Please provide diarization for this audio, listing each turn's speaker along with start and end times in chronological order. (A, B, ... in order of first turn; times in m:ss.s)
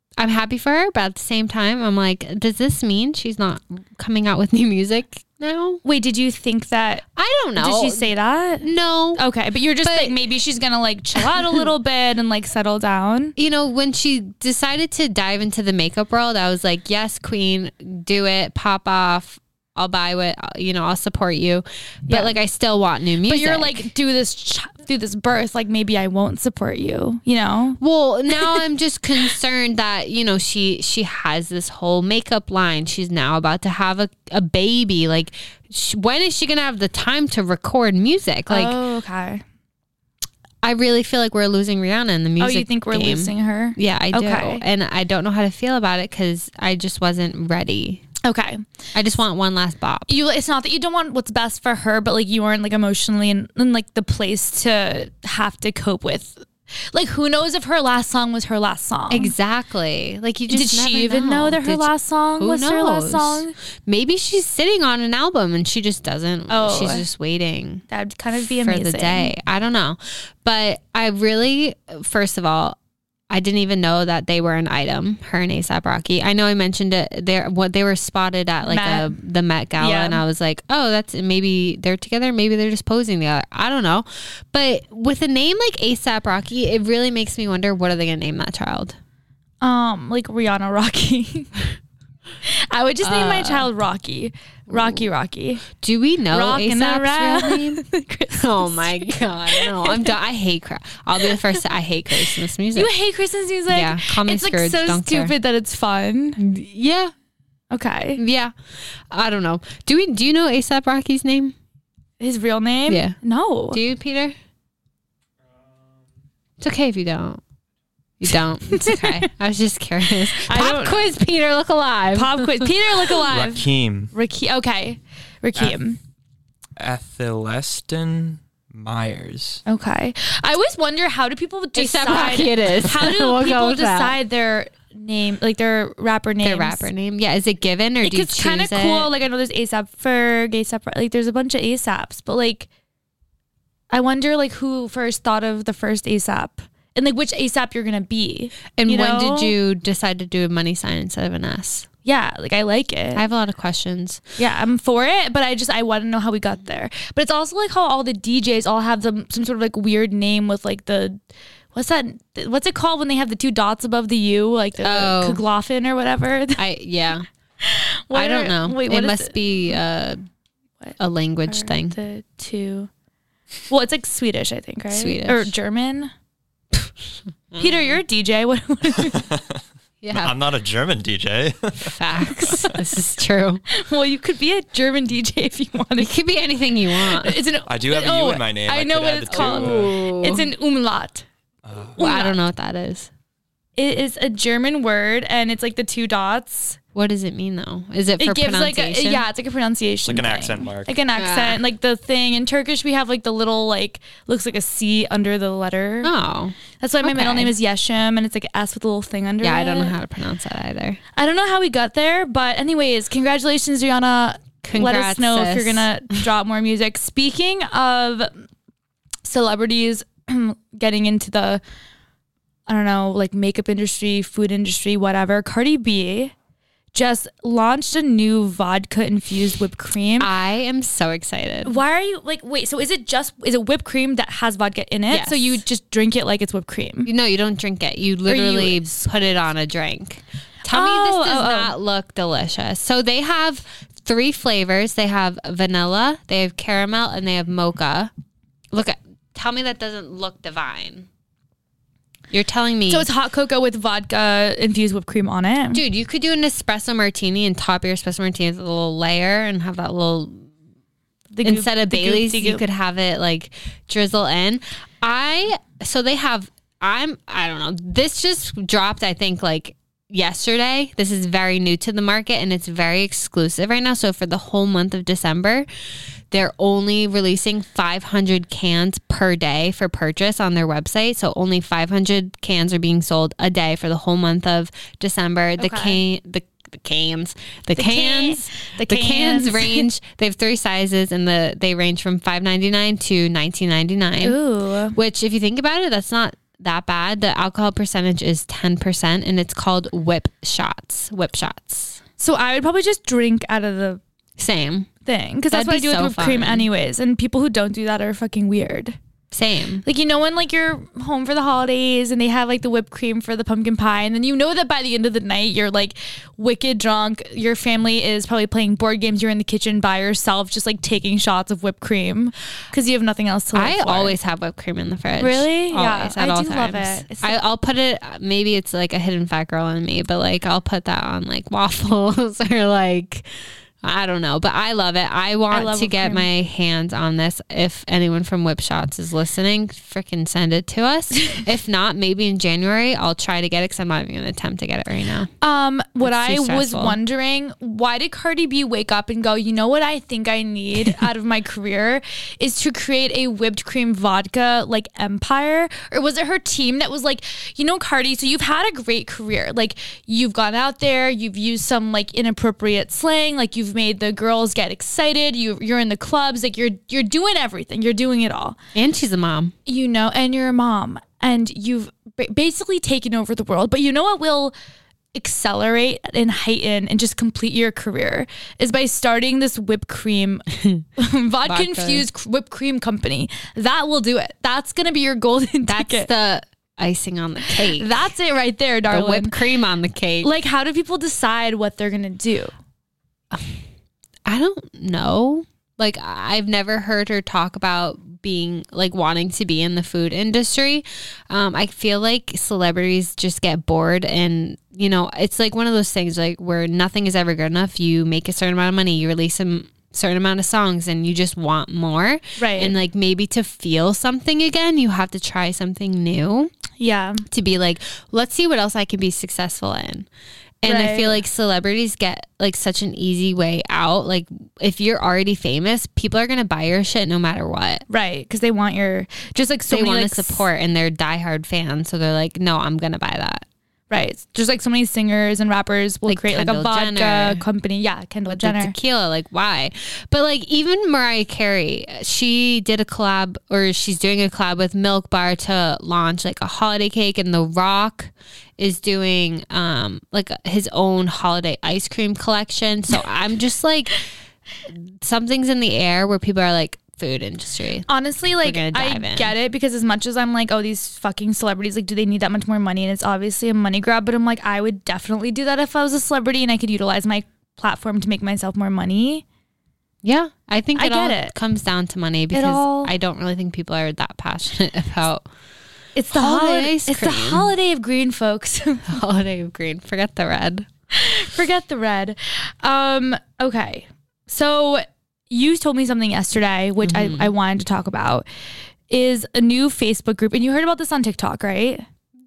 0:00.2-0:05.8 A
0:05.8-0:07.0 B
0:07.2-0:08.1 A
0:07.6-0:13.4 B
0:08.6-0:09.2 A
0:09.8-0:10.2 A
0:11.2-0:11.6 A
0:13.4-0:23.9 A
0:22.1-0:22.4 B
0:23.3-0:27.8 B
0:27.8-0:38.8 A
0:38.5-0:39.4 B
0:40.6-0:48.0 A
0:42.4-0:44.6 B
0:48.2-0:48.7 B
0:48.9-0:50.1 A
0:50.1-0:59.3 B
0:59.1-1:07.8 A
1:00.5-1:03.5 B
1:06.5-1:07.0 B
1:07.9-1:09.3 B
1:08.4-1:12.8 A
1:13.3-1:29.0 A
1:18.7-1:19.2 B
1:19.8-1:20.2 B
1:29.6-1:31.8 B
1:32.4-1:35.7 B
1:33.0-1:33.7 A
1:34.7-1:35.0 A
1:35.7-1:37.8 A
1:36.3-1:40.2 B
1:38.4-1:42.9 A
1:42.3-1:46.4 B
1:43.7-1:45.3 A
1:46.4-1:47.1 A
1:47.7-1:48.2 B
1:48.2-1:51.6 A
1:52.2-1:53.8 B
1:52.9-1:53.2 A
1:53.7-1:54.4 A
1:56.6-1:57.4 A
1:58.2-2:02.8 A
1:58.7-1:59.3 B
2:00.3-2:01.1 B
2:02.1-2:06.0 B
2:03.3-2:04.1 C
2:06.8-2:09.6 C
2:09.7-2:16.9 B
2:11.8-2:14.2 A
2:16.4-2:19.1 A
2:18.0-2:22.7 B
2:23.9-2:29.5 B
2:28.8-2:31.9 A
2:32.0-2:33.2 B
2:33.2-2:34.2 A
2:34.4-2:41.2 B
2:41.7-2:46.6 B
2:44.8-2:45.4 A
2:46.6-2:47.3 A
2:47.6-2:49.4 B
2:48.1-2:50.2 A
2:50.8-2:52.9 B
2:51.0-2:52.0 A
2:53.7-2:56.1 B
2:54.9-2:55.5 A
2:57.6-2:59.2 B
2:59.1-2:59.4 C
3:00.0-3:00.3 A
3:00.1-3:02.0 C
3:01.8-3:03.6 A
3:02.4-3:02.8 B
3:03.7-3:06.1 B
3:06.0-3:07.4 A
3:07.1-3:11.3 B
3:07.7-3:10.3 C
3:09.3-3:10.5 A
3:11.7-3:12.0 C
3:12.0-3:12.4 B
3:12.0-3:13.1 A
3:13.8-3:16.8 B
3:17.0-3:19.2 A
3:18.2-3:26.1 B
3:20.1-3:21.0 C
3:21.2-3:21.6 A
3:26.0-3:27.6 A
3:26.8-3:29.9 B
3:29.4-3:31.0 A
3:31.2-3:38.5 B
3:34.6-3:35.9 A
3:39.2-3:41.6 B
3:42.7-3:46.3 B
3:46.9-3:50.3 B
3:50.2-3:51.8 A
3:51.6-3:57.1 B
3:55.1-3:55.6 A
3:57.1-4:08.1 A
3:58.3-3:59.0 B
4:00.7-4:01.7 B
4:08.7-4:11.1 A
4:12.3-4:13.1 A
4:12.9-4:15.8 B
4:15.7-4:20.5 A
4:21.3-4:22.6 B
4:21.4-4:35.7 A
4:36.3-4:54.4 A
4:45.6-4:46.0 B
4:47.8-4:49.9 B
4:54.2-4:55.0 B
4:54.9-5:02.0 A
5:02.2-5:04.0 B
5:04.4-5:04.9 A
5:05.0-5:09.0 B
5:05.5-5:06.7 A
5:09.3-5:09.8 A
5:09.8-5:24.2 B
5:23.6-5:45.3 A
5:25.2-5:27.4 B
5:35.5-5:36.3 B
5:45.4-6:08.6 B
5:46.0-5:47.0 A
6:08.8-6:09.5 A
6:09.7-6:14.5 B
6:15.2-6:26.1 B
6:21.4-6:22.0 A
6:25.6-6:27.9 A
6:27.5-6:29.4 B
6:28.9-6:30.3 A
6:30.2-6:32.5 B
6:33.3-6:33.6 A
6:34.3-6:56.5 A
6:52.4-6:52.8 B
6:56.8-6:57.2 B
6:57.3-7:00.1 A
7:00.6-7:07.8 A
7:00.6-7:01.2 B
7:07.9-7:10.5 B
7:09.7-7:13.5 A
7:13.9-7:18.7 B
7:16.1-7:17.4 A
7:18.3-7:34.0 A
7:34.7-7:37.9 A
7:37.9-7:49.2 B
7:38.4-7:39.3 A
7:50.0-7:55.2 A
7:50.8-7:51.3 B
7:52.3-7:52.9 B
7:56.0-7:59.0 B
7:56.1-7:57.5 A
7:58.9-8:00.7 A
8:00.9-8:08.2 B
8:06.8-8:07.3 A
8:08.9-8:11.8 B